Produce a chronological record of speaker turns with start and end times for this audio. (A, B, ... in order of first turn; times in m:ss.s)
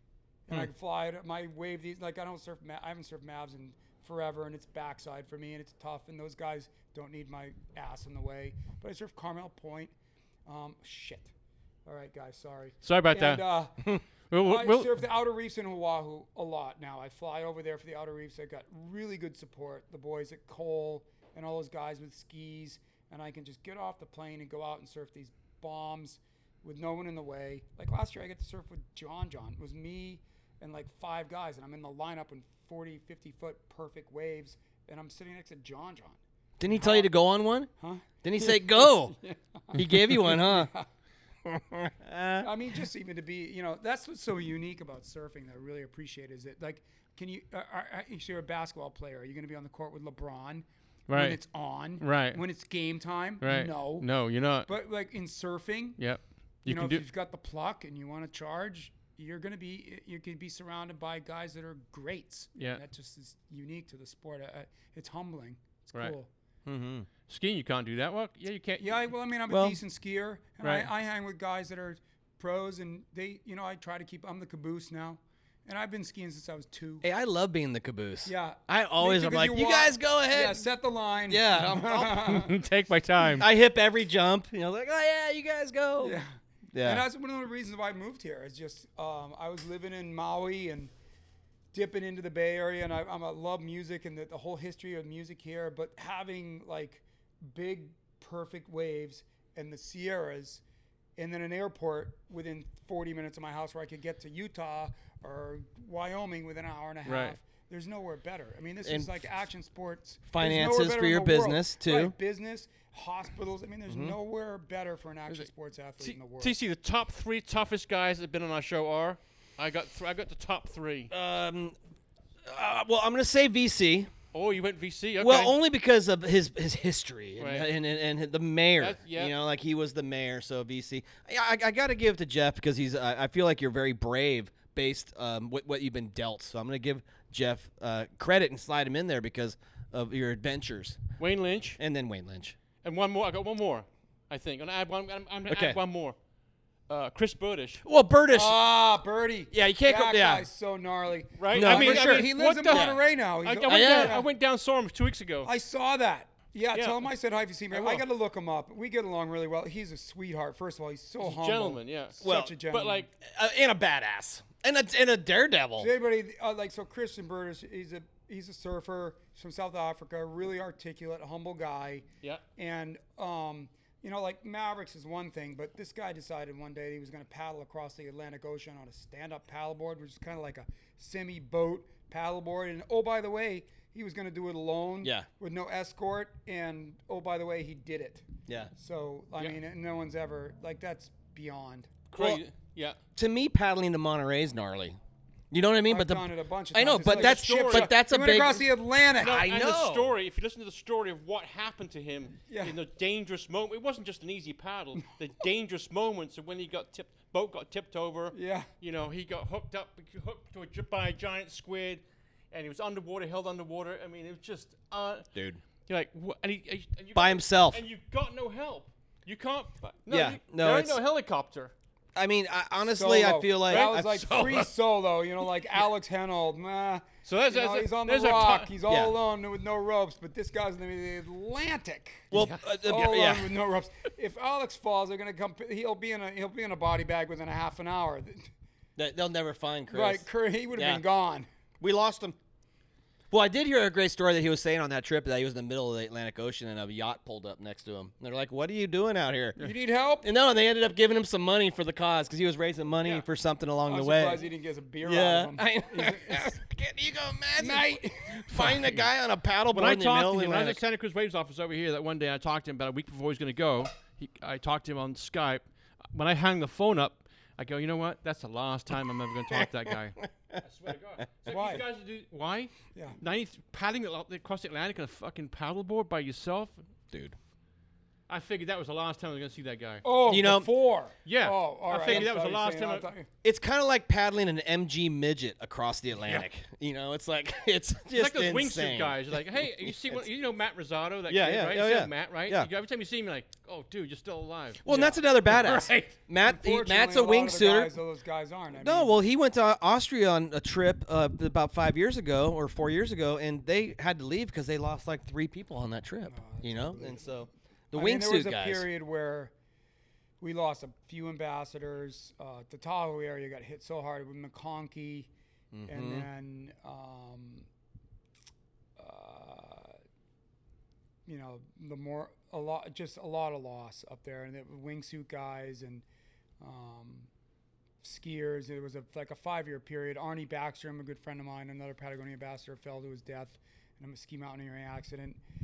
0:00.5-0:09.9 A
0:10.4-0:11.3 A
0:11.9-0:37.1 A
0:12.8-0:13.4 B
0:14.3-0:14.9 B
0:36.6-0:37.7 C
0:37.8-0:40.9 A
0:38.2-0:39.2 C
0:39.7-0:40.7 C
0:41.4-0:42.5 C
0:42.4-0:54.1 A
0:51.1-0:51.4 B
0:52.0-0:52.4 B
0:53.4-0:54.7 B
0:54.6-0:56.0 A
0:56.0-0:57.0 B
0:56.6-1:06.3 A
1:06.6-1:07.1 C
1:07.3-1:09.0 B
1:08.8-1:17.0 A
1:09.5-1:09.8 C
1:10.6-1:10.9 B
1:17.0-1:20.6 C
1:18.2-1:22.6 A
1:21.3-1:22.3 C
1:22.1-1:23.5 B
1:23.3-1:26.2 C
1:26.0-1:30.9 A
1:26.7-1:27.0 C
1:31.7-1:40.6 A
1:41.2-1:56.6 A
1:47.0-1:47.4 B
1:48.8-1:49.1 C
1:50.3-1:52.1 C
1:53.9-1:54.1 C
1:56.0-2:01.1 B
2:01.1-2:01.7 C
2:02.4-2:04.1 C
2:04.3-2:05.5 B
2:05.2-2:21.0 C
2:07.4-2:07.7 B
2:08.8-2:09.3 B
2:21.2-2:21.8 B
2:21.8-2:22.6 C
2:22.8-2:26.2 B
2:25.5-2:25.8 C
2:26.9-2:27.8 B
2:27.8-2:28.6 C
2:28.3-2:34.3 A
2:29.5-2:30.4 C
2:31.4-2:35.5 B
2:31.5-2:33.0 C
2:33.7-2:34.2 C
2:35.4-2:43.1 A
2:36.7-2:37.0 B
2:37.7-2:38.0 B
2:41.2-2:42.1 B
2:42.2-2:42.6 C
2:42.7-2:43.1 B
2:43.2-2:45.9 C
2:45.8-2:52.0 A
2:52.6-3:12.1 A
3:12.1-3:13.0 B
3:13.2-3:15.0 C
3:15.5-3:20.1 C
3:15.9-3:19.4 A
3:17.1-3:17.9 B
3:19.2-3:35.3 B
3:22.5-3:22.8 A
3:28.3-3:28.7 A
3:35.3-3:35.6 C
3:35.9-3:41.7 B
3:37.1-3:37.8 C
3:40.1-3:41.0 C
3:42.1-3:44.7 C
3:42.8-3:58.5 A
3:43.7-3:44.4 B
3:47.2-3:48.7 B
3:48.9-3:49.1 C
3:52.3-3:53.6 C
3:52.3-3:52.6 B
3:59.0-4:01.0 C
3:59.9-4:01.5 A
4:01.8-4:02.4 C
4:03.3-4:09.6 C
4:09.6-4:10.3 A
4:10.2-4:14.4 C
4:13.9-4:16.6 A
4:15.0-4:20.8 C
4:17.6-4:18.6 A
4:18.6-4:19.0 B
4:19.7-4:36.8 B
4:29.4-4:30.6 C
4:31.4-4:31.8 A
4:37.1-4:37.4 C
4:38.3-4:40.0 B
4:40.0-4:43.3 A
4:40.2-4:40.7 C
4:41.2-4:43.0 B
4:43.4-4:50.2 C
4:48.1-4:56.2 B
4:51.3-4:52.7 C
4:54.8-4:57.9 C
4:54.9-4:55.2 A
4:56.4-4:59.1 A
4:58.7-5:08.9 C
5:06.3-5:07.4 A
5:07.9-5:09.5 A
5:10.4-5:15.3 A
5:15.7-5:16.3 C
5:15.9-5:17.7 A
5:19.0-5:20.0 A
5:21.3-5:26.0 A
5:26.6-5:27.3 A
5:28.0-5:35.4 A